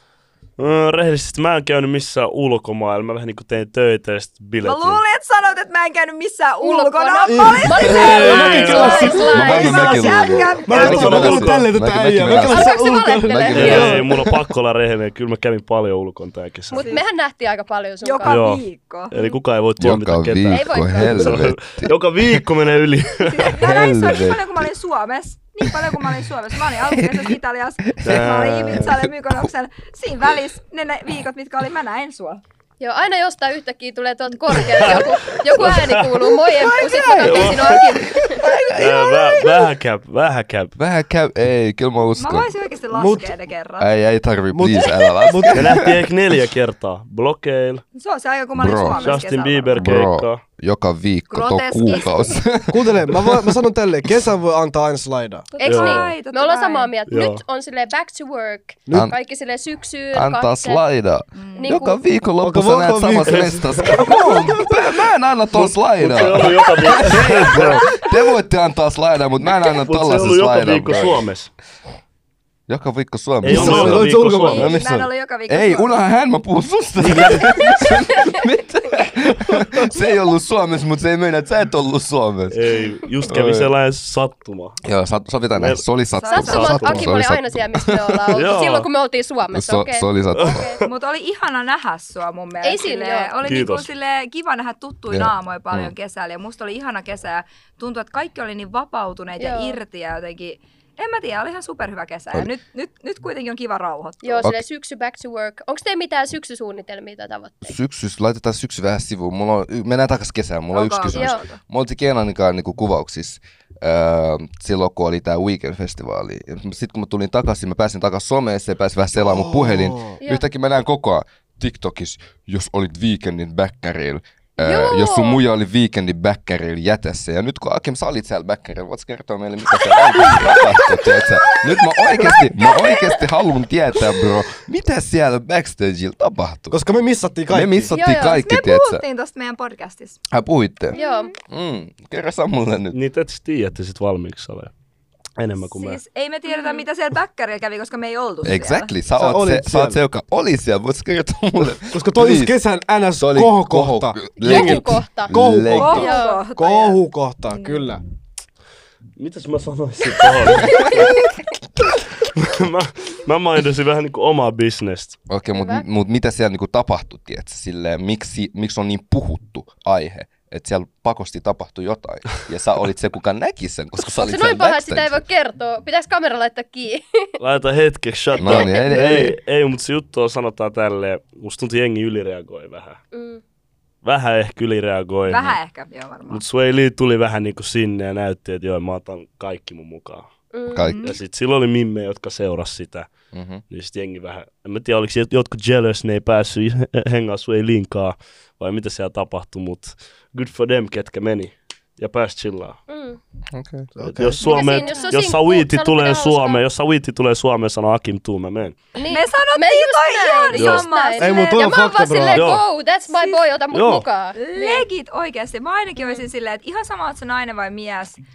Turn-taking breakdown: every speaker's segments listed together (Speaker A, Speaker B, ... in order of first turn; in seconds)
Speaker A: 0.6-5.0, 7.9-9.1, 10.7-11.7, 13.5-16.8, 18.2-23.6, 28.0-29.1, 34.6-36.1, 37.2-38.1, 38.7-40.7, 45.5-47.8, 49.0-50.4, 55.6-56.1, 57.1-57.4, 63.3-64.0, 65.6-67.9, 69.6-71.5, 73.4-74.8, 77.0-77.7, 82.5-84.8, 85.5-85.8, 86.4-87.1, 88.3-88.9, 90.3-90.9, 93.4-93.9, 142.9-144.7, 145.4-146.0, 159.2-161.2, 161.9-165.2, 177.4-183.0, 184.0-185.6, 186.3-190.3, 191.0-193.1, 193.7-202.8, 204.0-208.8, 210.5-210.9, 212.3-212.6, 213.7-214.1
Speaker B: 4.6-11.3, 16.7-17.1, 18.0-19.2, 23.2-32.4, 36.5-38.8, 42.2-43.9, 48.0-50.0, 51.3-52.4, 55.5-56.9, 61.3-61.7, 74.5-75.9, 86.2-86.7, 90.8-104.5, 110.7-111.6, 138.1-140.2, 140.9-141.3, 145.7-148.9, 155.7-157.8, 185.2-186.4, 190.8-191.2, 204.4-205.1, 209.1-212.3, 213.1-213.5, 214.3-218.2
Speaker C: 6.6-10.1, 12.4-14.1, 16.7-18.4, 20.4-21.4, 32.8-38.5, 48.9-49.1, 55.6-60.8, 61.6-62.0, 86.3-90.8, 92.6-93.3, 99.4-99.8, 104.2-107.8, 111.1-111.5, 124.6-125.4, 137.9-138.4, 140.9-141.3, 146.5-146.8, 154.4-155.3, 155.9-156.4, 160.5-161.2, 165.6-165.9, 174.1-177.1, 178.4-178.9, 183.1-183.4, 190.5-190.9, 202.9-203.2, 204.4-206.6, 208.9-214.9
Speaker D: 7.3-10.0, 10.7-14.0, 42.9-43.3, 44.5-45.8, 52.7-55.5, 62.4-64.7, 73.4-74.8, 119.2-120.2, 136.7-137.9, 149.2-150.0, 151.9-158.0, 203.9-204.5, 211.2-212.5
Speaker E: 9.3-14.4, 19.8-22.4, 23.6-24.7, 25.6-26.0, 26.7-27.3, 38.6-39.0, 40.8-42.5, 43.8-46.0, 48.6-49.1, 49.8-53.5, 60.1-71.2, 72.7-82.6, 83.3-83.7, 84.8-88.6, 89.5-90.7, 95.1-95.9, 107.6-136.8, 137.5-139.0, 140.3-143.0, 148.4-152.6, 153.2-156.1, 165.3-175.2, 178.4-179.4, 190.7-191.0, 193.3-193.6, 203.5-203.9